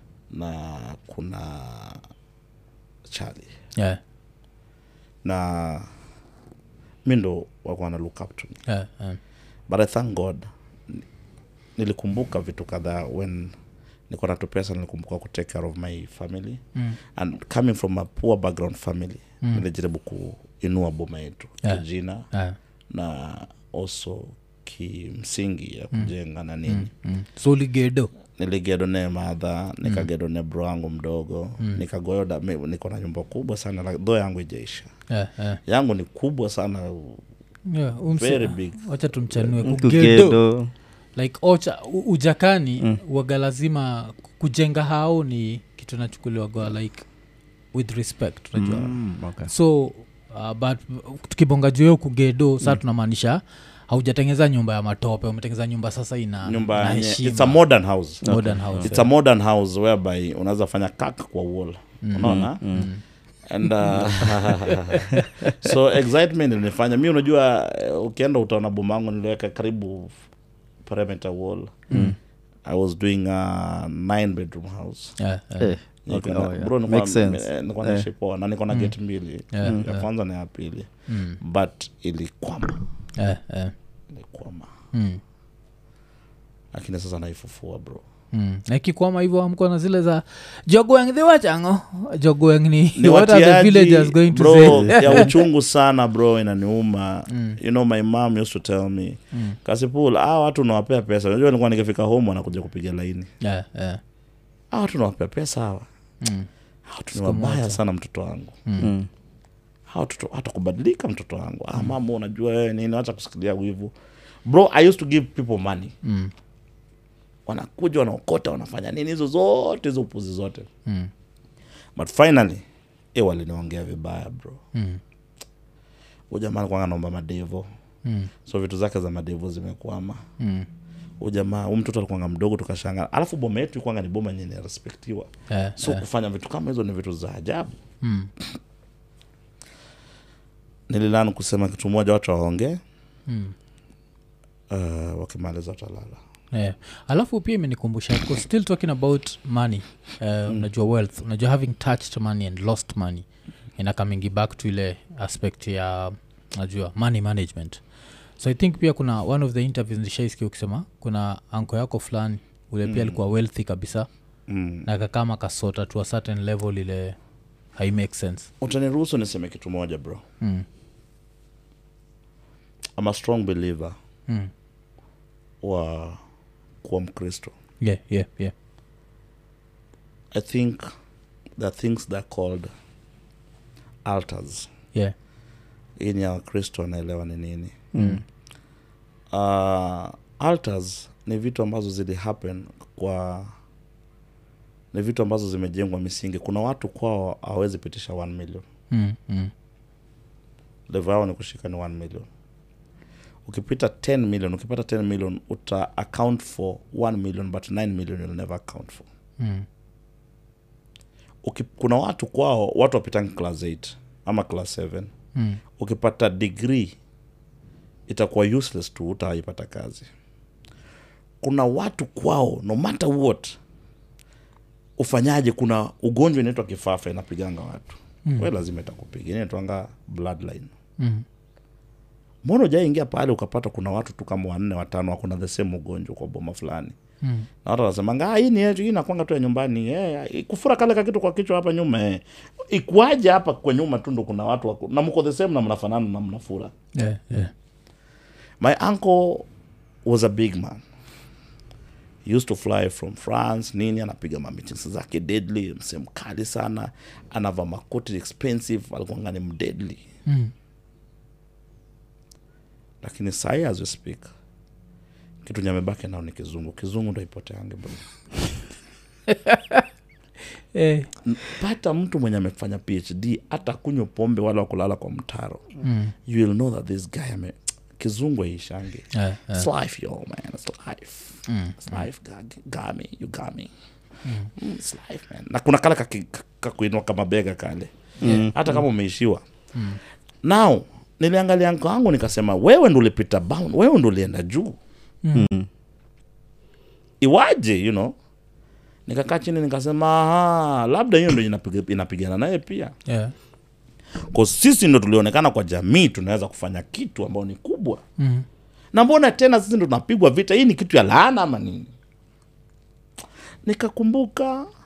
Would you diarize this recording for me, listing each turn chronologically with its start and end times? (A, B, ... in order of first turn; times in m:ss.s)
0:00.3-0:02.0 A
0:03.1-0:03.5 A
0:05.2-0:05.9 A
0:07.0-0:08.6 A
0:08.7-0:09.2 B
0:09.7-0:11.0 A
0:11.8-0:13.5 A
0:14.1-0:16.6 A
0:17.2-0:22.3 A
0:21.6-0:22.6 B
0:22.9-0:26.9 A
0:26.7-0:28.1 B
0:28.4-0:34.9 A
0:35.1-0:35.6 B
0:35.6-0:37.2 A
0:37.7-0:40.4 B
0:38.2-0:39.7 A
0:39.6-0:40.7 C
0:41.2-0:47.0 B
0:47.7-0:49.0 B
0:48.5-0:49.5 C
0:49.5-0:57.6 B
0:56.4-0:58.2 A
0:58.2-0:58.9 C
0:58.2-0:59.1 B
0:58.8-1:02.6 A
1:02.0-1:03.0 B
1:02.2-1:02.9 C
1:03.5-1:10.1 A
1:03.9-1:04.4 C
1:05.1-1:05.5 C
1:10.8-1:11.8 A
1:11.9-1:12.1 B
1:11.9-1:12.2 C
1:12.6-1:15.2 A
1:15.2-1:15.7 B
1:15.6-1:18.1 C
1:16.0-1:20.9 A
1:19.5-1:20.0 B
1:21.1-1:21.4 B
1:21.4-1:22.8 A
1:23.2-1:23.7 B
1:24.1-1:24.7 A
1:24.9-1:25.2 B
1:26.7-1:28.0 A
1:28.3-1:35.3 B
1:33.0-1:43.3 A
1:34.7-1:35.2 C
1:37.3-1:37.6 B
1:39.3-1:39.6 B
1:43.4-1:44.0 B
1:44.7-1:45.9 A
1:46.2-1:46.5 B
1:46.9-1:48.6 A
1:47.1-1:47.8 B
1:48.6-1:48.9 B
1:48.8-1:49.1 C
1:49.9-1:53.9 A
1:54.4-1:55.9 A
1:56.0-1:56.3 B
1:57.4-2:00.7 A
2:00.8-2:01.1 B
2:02.0-2:02.6 A
2:03.1-2:04.6 A
2:04.7-2:05.0 B
2:06.3-2:07.7 A
2:08.0-2:08.3 B
2:08.4-2:10.2 A
2:10.4-2:10.7 B
2:11.2-2:17.7 A
2:15.5-2:16.0 B
2:18.0-2:18.3 B
2:20.9-2:22.8 A
2:23.3-2:23.5 B
2:24.7-2:26.2 A
2:26.5-2:33.2 B
2:33.8-2:37.8 B
2:38.4-2:44.1 B
2:42.8-2:43.2 A
2:44.5-2:44.9 A
2:44.8-2:47.2 B
2:47.8-2:48.5 B
2:48.6-2:50.2 A
2:53.0-2:54.0 A
2:55.6-2:56.2 A
2:56.8-2:57.5 A
2:57.8-2:58.5 B
3:00.3-3:00.8 A
3:01.6-3:02.7 A
3:04.0-3:04.7 A
3:06.0-3:07.8 A
3:07.9-3:08.2 C
3:09.3-3:13.5 A
3:14.9-3:18.6 A
3:18.9-3:19.5 B
3:20.9-3:22.3 A
3:23.4-3:29.0 A
3:29.4-3:29.6 B
3:31.4-3:35.1 A
3:35.3-3:35.6 B
3:35.8-3:36.9 A
3:38.1-3:40.1 A
3:41.4-3:43.6 A
3:45.0-3:50.7 A
3:51.0-3:51.2 B
3:52.4-3:56.9 A
3:57.2-3:57.5 B
3:57.6-4:06.7 A
4:06.9-4:07.5 B
4:08.6-4:09.5 A
4:10.0-4:10.8 A
4:12.2-4:20.0 A
4:20.2-4:20.5 B
4:23.0-4:24.3 A
4:25.4-4:28.0 A
4:29.3-4:29.8 B
4:30.7-4:31.1 B
4:31.2-4:35.6 A
4:35.8-4:36.1 B
4:36.2-4:43.7 A
4:39.1-4:39.7 B
4:41.5-4:42.0 B
4:44.2-4:44.5 B
4:44.6-4:49.4 A
4:48.2-4:48.5 C
4:48.2-4:48.6 B
4:49.7-4:50.0 B
4:50.4-4:54.7 A
4:55.2-4:55.5 B
4:55.3-4:55.7 C
4:57.2-4:58.1 A
4:59.1-5:02.9 A
5:03.0-5:03.3 B
5:04.3-5:08.0 A
5:08.2-5:08.4 B
5:08.9-5:11.9 A
5:13.6-5:14.7 A